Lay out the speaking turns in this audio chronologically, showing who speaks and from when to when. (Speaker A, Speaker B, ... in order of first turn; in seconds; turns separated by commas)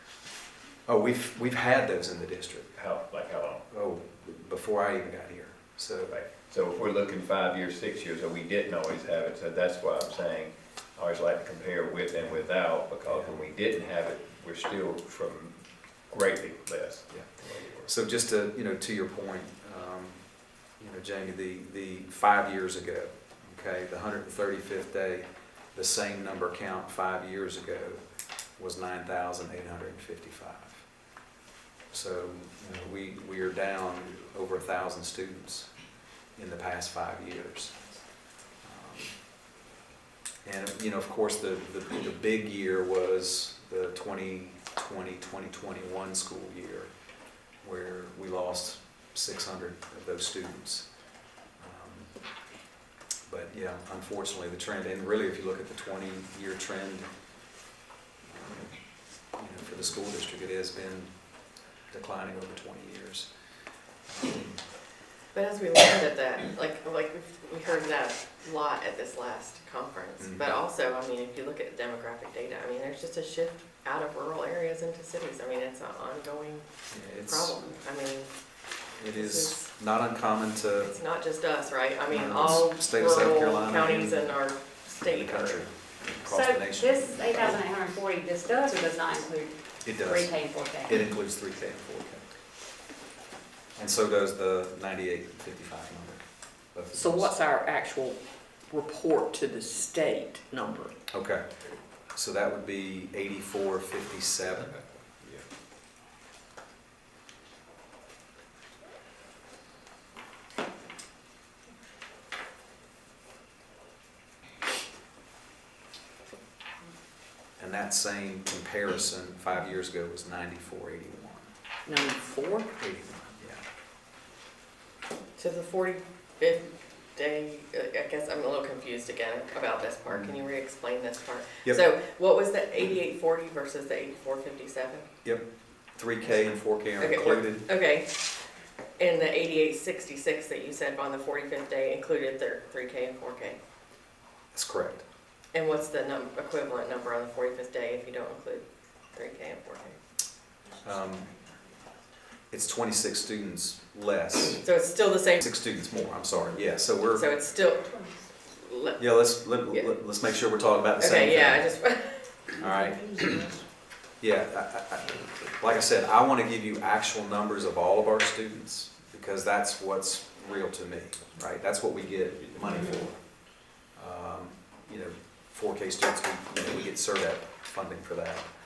Speaker A: 0.9-2.7, Speaker B: 2.7-3.6, Speaker A: 3.7-6.1, Speaker B: 6.1-15.6, Speaker A: 13.1-13.4, Speaker B: 16.1-17.9, Speaker A: 17.9-28.0, Speaker A: 28.6-30.9, Speaker A: 31.9-37.9, Speaker A: 38.6-39.2, Speaker A: 40.4-46.9, Speaker A: 47.6-50.9, Speaker A: 51.6-52.2, Speaker A: 53.3-57.1, Speaker A: 58.3-58.7, Speaker A: 59.3-63.3, Speaker A: 64.1-64.6, Speaker C: 65.3-76.7, Speaker A: 70.2-70.5, Speaker A: 76.9-77.6, Speaker C: 77.2-78.3, Speaker A: 79.0-81.0, Speaker C: 79.1-79.7, Speaker C: 80.8-85.7, Speaker A: 82.1-84.3, Speaker A: 85.0-87.2, Speaker D: 86.3-91.0, Speaker A: 89.8-90.3, Speaker A: 90.9-92.2, Speaker A: 93.8-97.3, Speaker E: 96.9-98.2, Speaker E: 98.7-100.9, Speaker A: 101.1-101.4, Speaker A: 102.1-104.8, Speaker A: 117.6-121.5, Speaker E: 121.9-122.7, Speaker A: 122.8-123.6, Speaker C: 125.4-135.1, Speaker A: 130.1-130.4, Speaker A: 135.2-137.7, Speaker C: 137.0-138.1, Speaker C: 139.0-143.6, Speaker A: 144.5-145.0, Speaker C: 145.5-150.0, Speaker A: 150.8-151.3, Speaker A: 152.5-154.6, Speaker C: 154.6-155.4, Speaker A: 155.4-157.3, Speaker C: 157.1-159.0, Speaker A: 159.0-161.7, Speaker C: 161.0-162.3, Speaker A: 162.6-163.5, Speaker E: 163.1-163.5, Speaker A: 164.2-173.1, Speaker A: 174.0-178.5